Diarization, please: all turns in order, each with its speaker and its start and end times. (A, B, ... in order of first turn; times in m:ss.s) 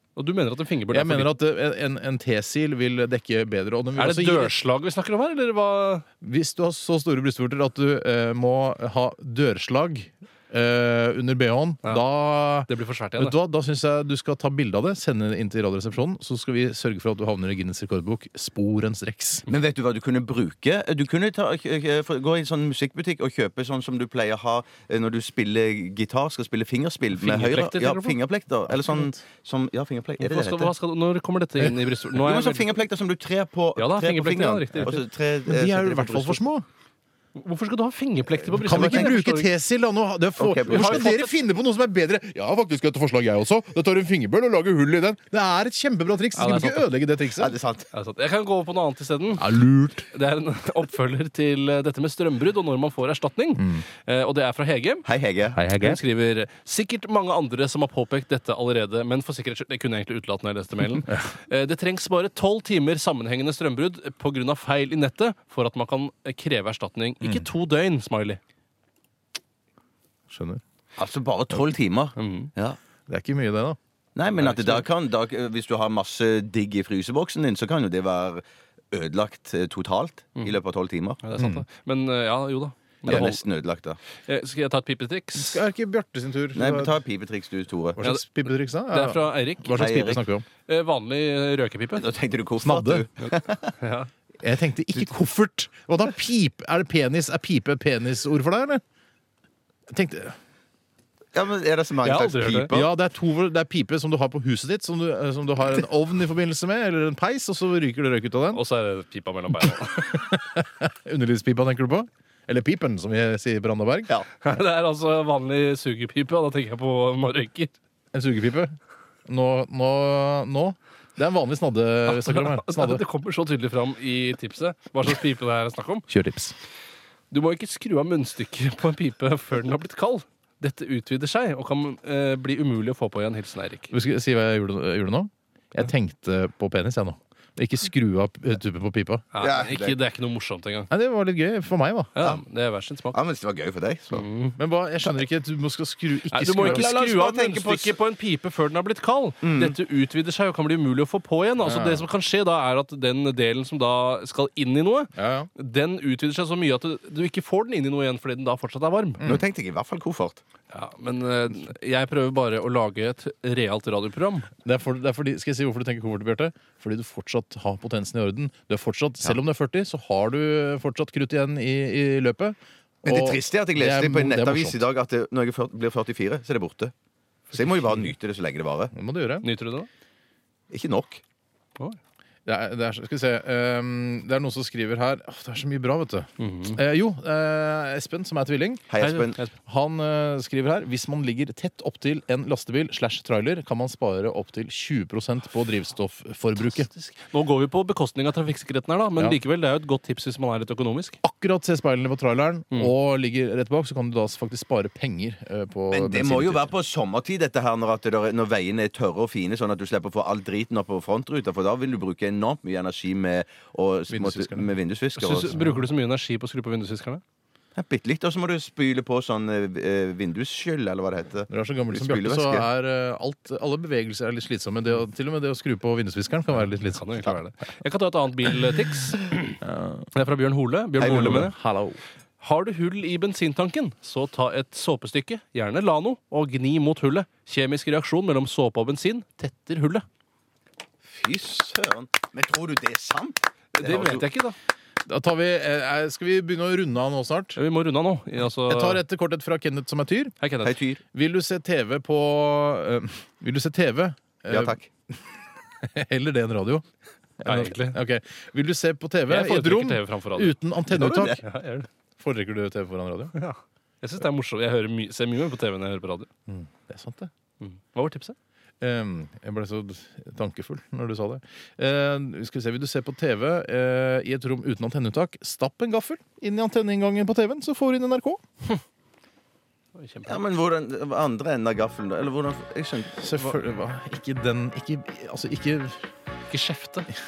0:00.2-0:01.4 A
0:00.9-0:04.6 B
0:04.0-0:06.0 A
0:06.2-0:19.5 B
0:12.6-0:13.3 A
0:19.5-0:30.7 C
0:27.1-0:28.2 A
0:28.7-0:29.2 B
0:30.2-0:32.7 A
0:32.1-0:36.4 C
0:33.8-0:35.0 A
0:34.7-0:36.6 B
0:37.4-0:39.5 A
0:38.4-0:39.2 C
0:38.6-0:47.6 B
0:40.4-0:41.1 C
0:40.7-0:41.3 A
0:46.3-0:46.9 A
0:47.4-0:47.9 C
0:47.9-0:49.5 A
0:49.4-0:50.1 B
0:50.1-0:55.1 A
0:53.6-0:53.8 B
0:55.1-0:55.6 C
0:55.5-0:56.0 B
0:55.7-1:08.4 A
1:07.2-1:07.5 B
1:10.3-1:10.6 B
1:11.0-1:12.8 C
1:12.2-1:12.5 A
1:13.1-1:13.8 B
1:14.2-1:21.2 C
1:14.4-1:14.9 A
1:21.2-1:23.4 A
1:21.4-1:21.6 B
1:23.1-1:23.3 B
1:23.1-1:24.0 C
1:24.2-1:25.6 A
1:25.3-1:27.0 B
1:26.6-1:28.0 C
1:28.0-1:30.4 B
1:28.0-1:30.0 A
1:29.8-1:30.2 C
1:30.6-1:32.0 A
1:32.0-1:33.7 C
1:32.6-1:33.1 B
1:33.8-1:34.1 A
1:34.4-1:38.8 B
1:39.9-1:40.4 B
1:41.3-1:42.9 C
1:42.0-1:42.7 A
1:42.7-1:48.6 B
1:48.5-1:50.3 A
1:49.6-1:54.2 B
1:54.4-1:57.8 A
1:58.1-1:58.7 B
1:59.3-2:03.0 B
2:02.1-2:06.1 A
2:06.1-2:06.5 B
2:07.3-2:13.9 A
2:13.9-2:19.3 B
2:19.3-2:20.9 A
2:19.4-2:20.0 C
2:20.9-2:22.1 B
2:22.1-2:23.2 A
2:23.1-2:24.2 C
2:24.1-2:24.6 A
2:24.6-2:26.9 B
2:26.3-2:39.2 A
2:26.6-2:28.0 C
2:29.4-2:29.8 C
2:31.6-2:32.1 B
2:35.1-2:35.5 B
2:39.2-2:40.4 C
2:40.7-2:44.5 A
2:44.6-2:54.8 B
2:53.0-2:56.9 C
2:57.5-2:58.9 C
2:57.5-2:58.1 A
2:58.9-2:59.5 B
2:59.4-2:59.9 A
3:00.7-3:01.2 C
3:02.5-3:08.9 B
3:06.4-3:06.8 A
3:08.9-3:09.4 C
3:09.0-3:09.5 A
3:09.6-3:16.9 B
3:16.6-3:21.2 A
3:21.2-3:26.7 B
3:25.9-3:35.6 C
3:34.1-3:34.7 B
3:35.2-3:37.2 A
3:35.5-3:35.9 B
3:37.8-3:42.7 C
3:41.5-3:47.4 B
3:46.5-3:49.6 A
3:49.6-3:50.1 B
3:50.1-3:51.5 A
3:51.0-3:51.5 C
3:51.0-3:52.0 B
3:52.4-4:00.0 A
4:01.0-4:04.2 C
4:03.8-4:04.6 A
4:05.1-4:07.6 B
4:07.6-4:09.0 A
4:08.7-4:10.4 B
4:10.4-4:10.8 A
4:10.6-4:11.0 C
4:11.1-4:14.8 B
4:14.5-4:14.9 C
4:15.8-4:16.8 B
4:17.4-4:21.4 B
4:17.4-4:18.0 A
4:19.3-4:21.9 A
4:20.9-4:21.4 C
4:22.2-4:23.3 B
4:23.3-4:26.3 A
4:26.5-4:27.3 B
4:27.6-4:28.4 A
4:28.8-4:38.4 B
4:40.0-4:40.4 A
4:40.2-4:43.2 C
4:43.2-4:46.0 B
4:46.5-4:47.1 A